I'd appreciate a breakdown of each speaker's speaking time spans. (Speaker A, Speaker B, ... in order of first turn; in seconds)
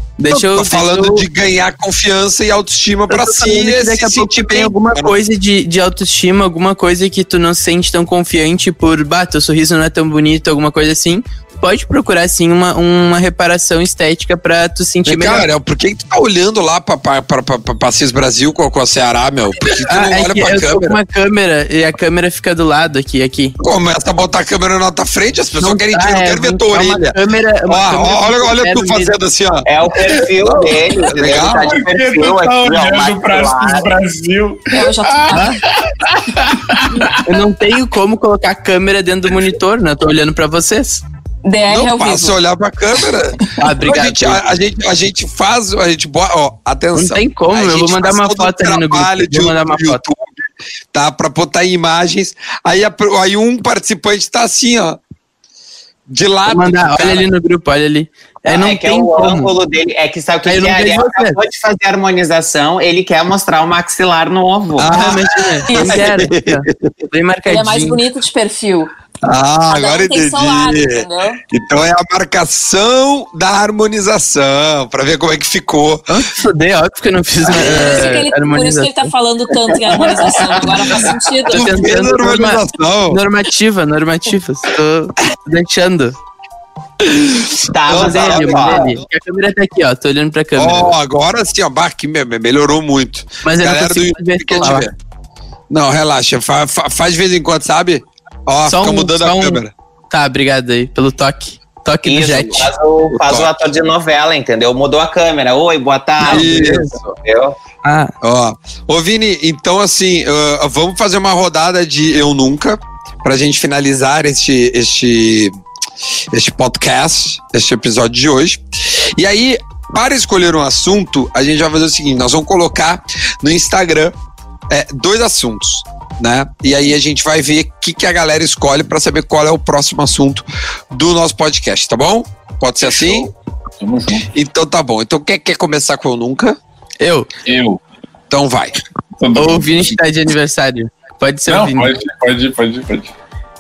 Speaker A: 0.2-1.3, 3.1-15.5, 19.7-23.6, 25.5-29.1, 35.3-35.6, 37.2-41.0, 43.6-44.5, 47.0-50.0, 56.5-59.5, 60.5-61.4, 64.9-68.0, 76.1-79.1, 81.5-86.2, 87.9-91.0, 93.4-94.9, 98.7-102.7, 106.2-107.1, 107.8-108.1, 137.0-137.3, 139.3-141.9
Speaker B: 0.3-5.1, 15.1-21.0, 23.6-29.7, 30.4-31.8, 41.7-50.4, 50.9-55.0, 56.1-57.3, 64.8-66.9, 69.2-76.1, 81.5-83.2, 87.0-89.0, 90.6-94.9, 95.7-99.7, 103.1-103.5, 106.2-107.0, 108.2-115.5, 116.3-124.2, 124.7-133.3, 134.3-136.6, 138.3-138.8
Speaker C: 29.7-33.9, 58.5-64.9, 79.9-81.2, 87.7-88.9, 102.0-107.6
Speaker D: 31.4-37.2, 132.9-134.3, 137.4-137.8, 139.2-140.0, 141.5-143.1
Speaker E: 34.7-35.6, 41.4-42.4, 65.7-66.0, 67.5-68.9, 69.7-71.4, 77.5-81.7